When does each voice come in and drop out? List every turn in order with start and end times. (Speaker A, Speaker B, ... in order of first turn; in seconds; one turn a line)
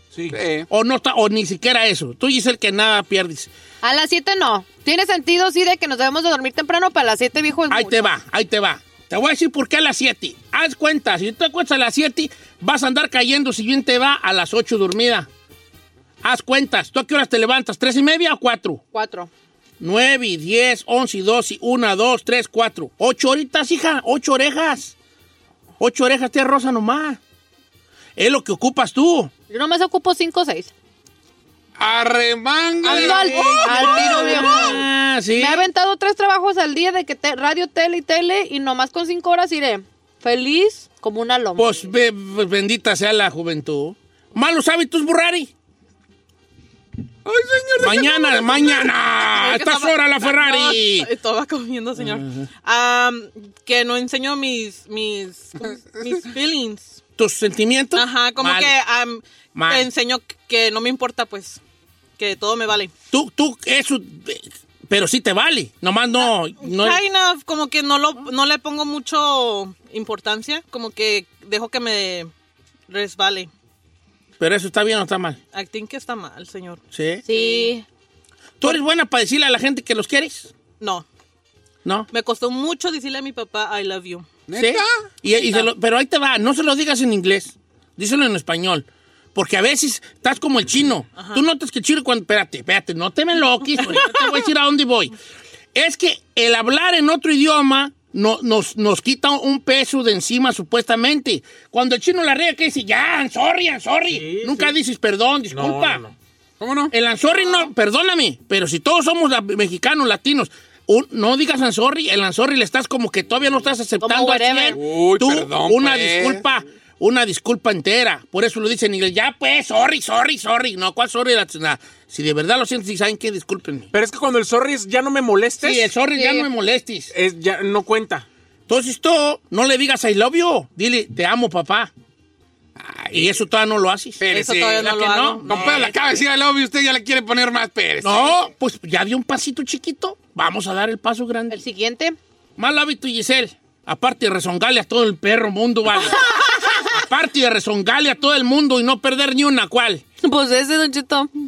Speaker A: 0.1-0.4
Speaker B: 0.3-0.7
Speaker C: 0.7-3.5
Speaker D: 3.8-8.1
Speaker C: 7.7-15.3
Speaker C: 16.2-18.8
Speaker D: 18.9-19.3
Speaker C: 19.8-24.9
Speaker C: 25.8-27.2
Speaker C: 28.1-29.3
Speaker D: 29.5-30.7
Speaker B: 31.8-34.6
Speaker D: 32.8-34.8
Speaker C: 32.8-35.6
Speaker D: 35.3-41.8
Speaker C: 41.6-45.5
Speaker B: 47.2-48.9
Speaker C: 47.8-51.1
Speaker E: 48.7-57.0
Speaker C: 52.0-52.5
Speaker C: 57.2-58.7
Speaker E: 57.9-61.6
Speaker C: 59.5-59.9
Speaker E: 62.2-62.9
Speaker C: 63.1-67.0
Speaker E: 66.2-72.3
Speaker E: 72.9-73.5
Speaker C: 74.4-75.4
Speaker E: 75.5-77.8
Speaker C: 76.9-77.2
Speaker D: 77.2-77.8
Speaker C: 78.6-80.5
Speaker E: 80.8-81.0
Speaker E: 82.1-84.3
Speaker B: 84.5-85.0
Speaker C: 84.5-95.1
Speaker E: 91.1-91.4
Speaker E: 93.8-94.4
Speaker C: 95.7-106.0
Speaker A: 104.1-104.7
Speaker A: 105.5-106.1
Speaker B: 106.6-106.9
Speaker C: 106.9-123.9
Speaker D: 107.4-107.6
Speaker D: 114.0-114.8
Speaker B: 114.7-116.4
Speaker A: 123.9-125.9
Speaker C: 125.6-127.1
Speaker D: 126.1-126.5
Speaker A: 127.1-128.2
Speaker C: 128.7-131.9
Speaker B: 132.8-133.4
Speaker C: 133.1-134.2
Speaker B: 134.2-134.9
Speaker E: 134.3-135.9
Speaker C: 134.7-135.9
Speaker B: 135.4-138.4
Speaker C: 138.0-141.6
Speaker D: 141.5-142.2
Speaker C: 142.6-150.0
Speaker D: 146.2-146.8
Speaker D: 150.2-151.3